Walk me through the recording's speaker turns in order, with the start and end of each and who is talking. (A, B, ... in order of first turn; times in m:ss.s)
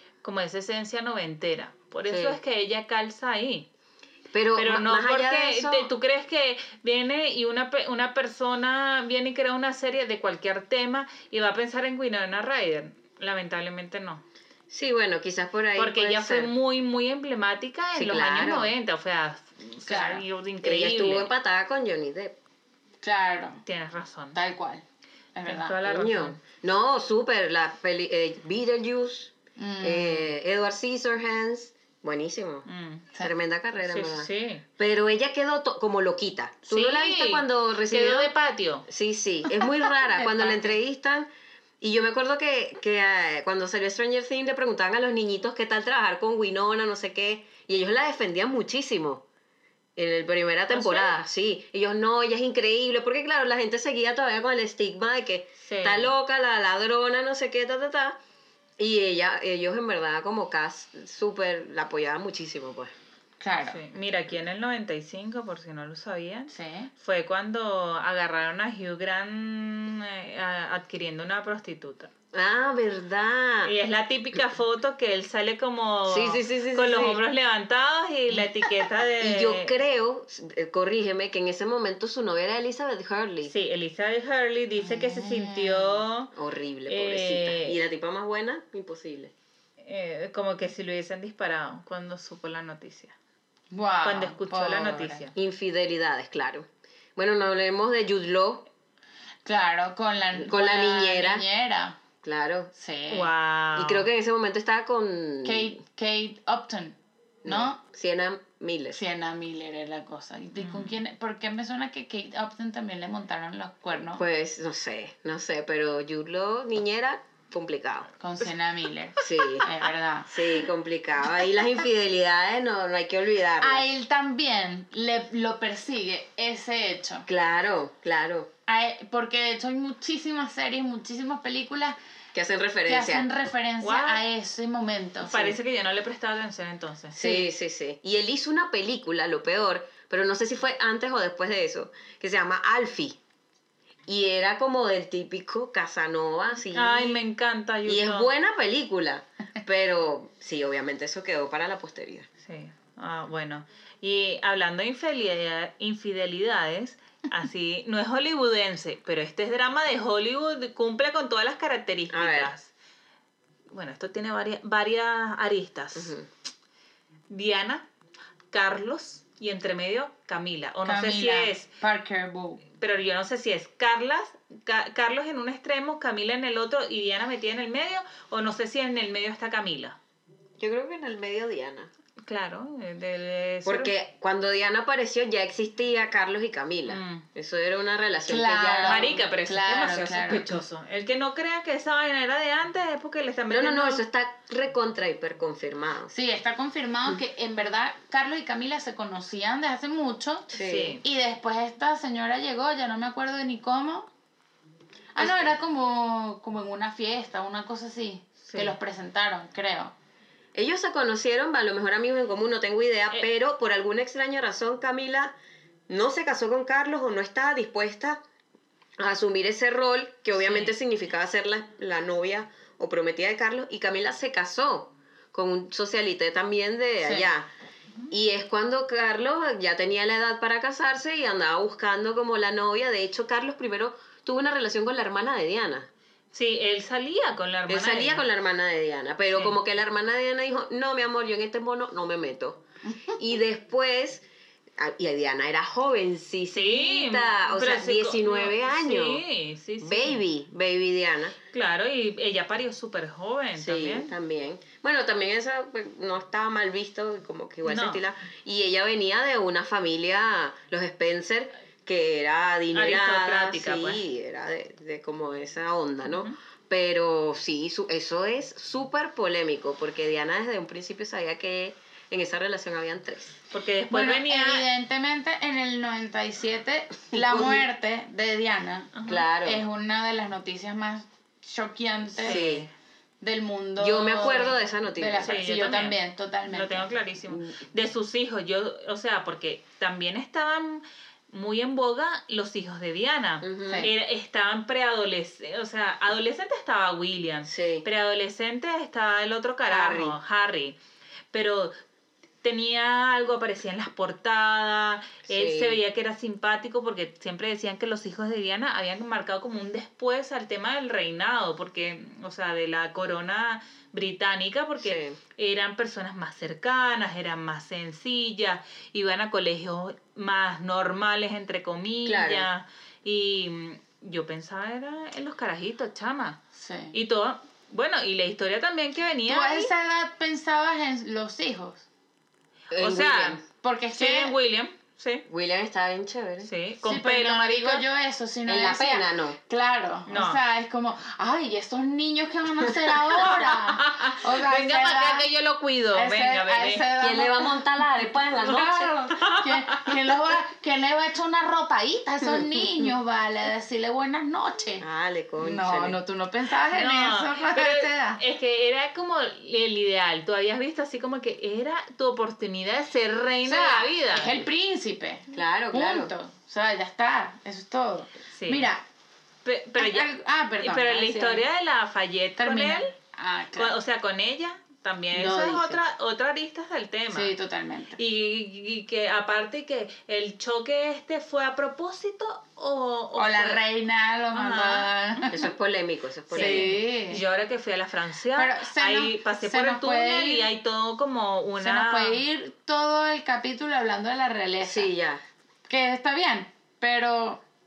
0:00.2-0:03.7 A
0:02.0-0:02.4 B
0:04.3-0:05.9 B
0:04.6-0:14.2 A
0:14.7-0:16.5 B
0:15.8-0:21.3 A
0:17.9-0:18.7 B
0:19.8-0:20.2 C
0:20.6-0:22.3 B
0:23.0-0:23.6 C
0:23.6-0:24.4 A
0:24.3-0:24.8 C
0:25.3-0:25.8 C
0:25.4-0:26.4 A
0:25.8-0:32.7 B
0:29.6-0:30.3 C
0:32.7-0:33.1 A
0:33.2-0:38.3 B
0:33.8-0:34.6 A
0:36.7-0:38.8 A
0:38.9-0:41.3 B
0:39.6-0:40.7 C
0:41.8-0:49.2 B
0:50.0-0:58.2 B
0:50.7-0:51.1 A
0:55.6-0:56.1 A
0:58.8-1:02.9 B
1:03.4-1:03.8 C
1:03.6-1:12.1 A
1:06.5-1:06.9 C
1:12.3-1:13.7 B
1:13.6-1:19.7 A
1:16.1-1:17.2 B
1:19.2-1:23.5 B
1:23.4-1:26.3 A
1:24.8-1:26.0 C
1:26.3-1:29.3 B
1:26.9-1:27.8 A
1:29.8-1:33.1 A
1:33.7-1:35.2 C
1:34.0-1:35.3 A
1:35.3-1:38.7 B
1:39.4-1:42.0 C
1:40.3-1:41.4 B
1:42.2-1:42.7 B
1:42.7-1:43.3 C
1:43.1-1:44.0 A
1:43.7-1:45.8 B
1:45.4-1:47.8 C
1:47.4-1:49.0 B
1:48.9-1:54.2 C
1:50.6-1:51.0 A
1:54.2-1:58.1 B
1:58.2-2:00.6 C
1:59.2-2:03.8 B
2:03.6-2:07.3 C
2:07.2-2:08.5 B
2:08.7-2:12.0 C
2:12.3-2:13.3 B
2:12.8-2:15.5 C
2:13.8-2:14.2 A
2:15.2-2:17.2 A
2:17.1-2:23.2 B
2:17.2-2:17.5 C
2:24.0-2:27.2 B
2:26.7-2:28.3 A
2:27.8-2:32.3 B
2:32.4-2:42.7 A
2:42.1-2:42.5 B
2:43.7-2:46.2 A
2:45.9-2:46.3 B
2:47.3-2:47.8 A
2:48.5-2:51.7 A
2:50.8-2:52.6 C
2:52.8-3:00.0 A
3:00.6-3:01.9 B
3:02.3-3:03.9 A
3:03.6-3:09.2 B
3:06.9-3:07.2 A
3:08.3-3:10.5 C
3:08.9-3:14.0 A
3:13.5-3:16.1 B
3:16.1-3:20.5 C
3:20.5-3:21.0 B
3:20.6-3:21.0 A
3:21.0-3:24.1 C
3:25.1-3:29.9 C
3:25.2-3:25.5 B
3:28.4-3:28.8 A
3:30.5-3:35.3 B
3:35.9-3:38.2 B
3:39.0-3:47.5 B
3:40.4-3:40.7 A
3:47.0-3:47.3 C
3:48.1-3:55.9 B
3:56.3-3:58.2 A
3:57.7-4:02.6 B
4:03.2-4:04.2 B
4:04.8-4:09.2 B
4:06.5-4:10.2 A
4:09.8-4:11.4 B
4:11.5-4:14.1 A
4:13.6-4:33.4 B
4:17.6-4:18.0 A
4:22.7-4:24.0 A
4:26.0-4:26.3 A
4:33.5-4:34.6 A
4:33.9-4:42.5 C
4:37.1-4:37.6 B
4:38.9-4:39.2 A
4:39.0-4:39.6 B
4:42.2-4:42.7 A
4:42.3-4:42.6 B
4:43.2-4:46.9 C
4:43.8-4:45.4 B
4:45.2-5:00.8 A
4:47.3-4:47.6 B
4:53.4-4:53.9 B
4:53.6-4:53.9 C
4:57.5-4:57.8 B
4:59.7-5:00.2 B
5:01.3-5:01.7 A
5:02.4-5:26.4 A
5:05.3-5:05.8 B
5:14.8-5:15.2 B
5:22.0-5:22.5 B
5:26.5-5:27.0 C
5:26.9-5:29.7 A
5:29.2-5:31.8 C
5:32.7-5:33.4 B
5:32.7-5:33.4 A
5:33.6-5:34.3 C
5:33.9-5:35.2 A
5:35.3-5:36.5 B
5:36.4-5:37.8 A
5:36.8-5:45.3 C
5:38.4-5:39.4 B
5:40.1-5:40.4 A
5:43.2-5:46.9 A
5:45.9-5:47.6 C
5:47.0-5:48.9 B
5:48.4-5:54.8 C
5:49.1-5:50.1 A
5:54.8-5:56.0 B
5:55.4-5:58.2 C
5:56.7-6:04.4 A
6:03.4-6:08.8 C
6:05.3-6:06.1 B
6:08.4-6:08.7 A
6:09.4-6:12.9 A
6:09.8-6:11.4 C
6:12.4-6:13.8 C
6:13.5-6:17.3 A
6:15.1-6:15.8 C
6:17.1-6:18.0 C
6:18.0-6:23.6 A
6:23.2-6:25.5 C
6:24.3-6:25.3 A
6:25.3-6:26.7 B
6:26.3-6:27.2 C
6:26.3-6:32.2 A
6:28.3-6:30.5 C
6:31.6-6:34.9 C
6:34.6-6:35.2 B
6:35.7-6:37.4 C